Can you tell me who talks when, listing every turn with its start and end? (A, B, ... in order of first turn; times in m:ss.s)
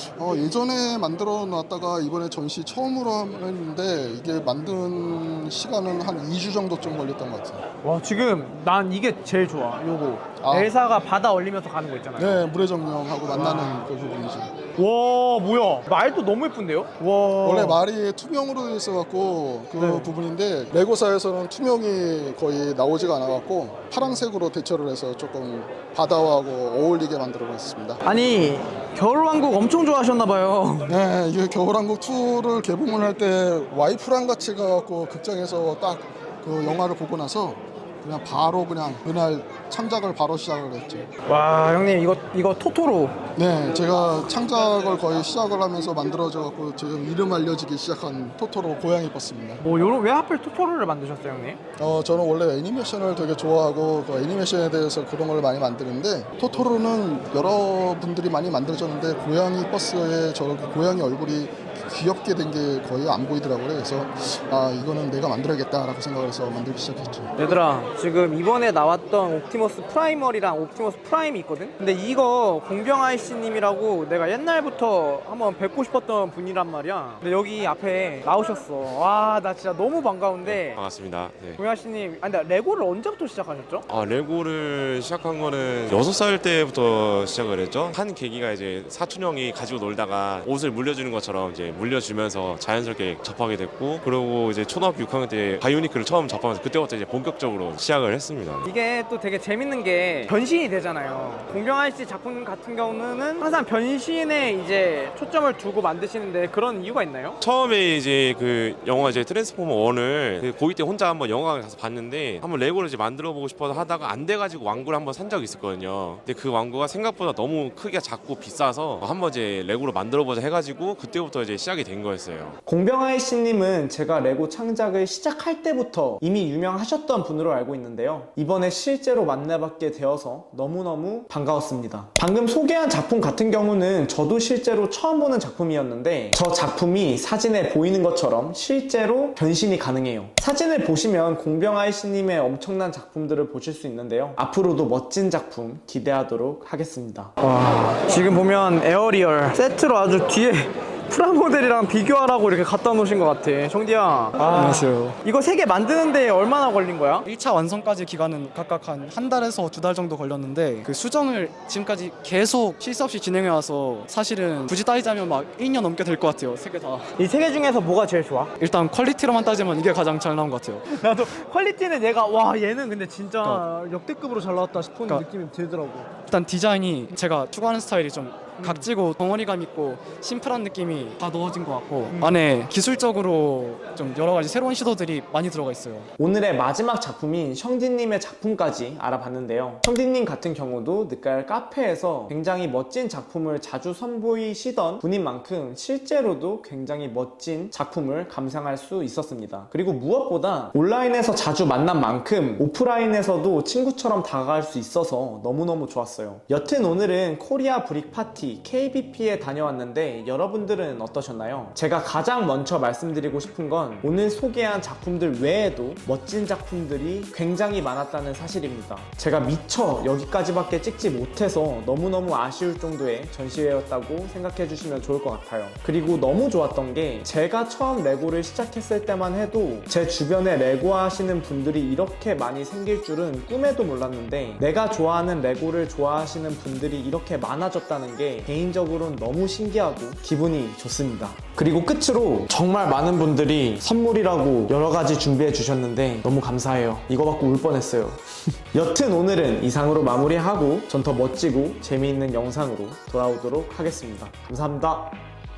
0:00.2-0:07.6 A
0:07.8-0:12.4 B
0:10.4-0:10.7 A
0:12.2-0:14.5 A
0:13.3-0:13.9 B
0:14.8-0:17.8 B
0:17.4-0:28.0 A
0:19.8-0:20.1 B
0:28.0-0:30.9 B
0:30.9-0:41.1 A
0:41.3-0:43.2 B
0:43.4-0:49.6 A
0:49.6-0:51.6 B
0:51.8-1:07.3 A
1:07.4-1:20.8 B
1:20.4-1:21.6 C
1:21.6-1:23.8 B
1:23.9-1:38.7 C
1:38.6-1:47.4 B
1:47.4-2:02.6 C
2:02.7-2:27.3 D
2:27.4-2:37.3 B
2:34.4-2:35.2 E
2:37.3-2:47.1 E
2:47.2-2:48.5 B
2:48.6-2:50.8 E
2:50.9-2:56.1 B
2:56.3-3:06.1 E
2:58.6-2:58.9 B
3:06.2-4:15.2 D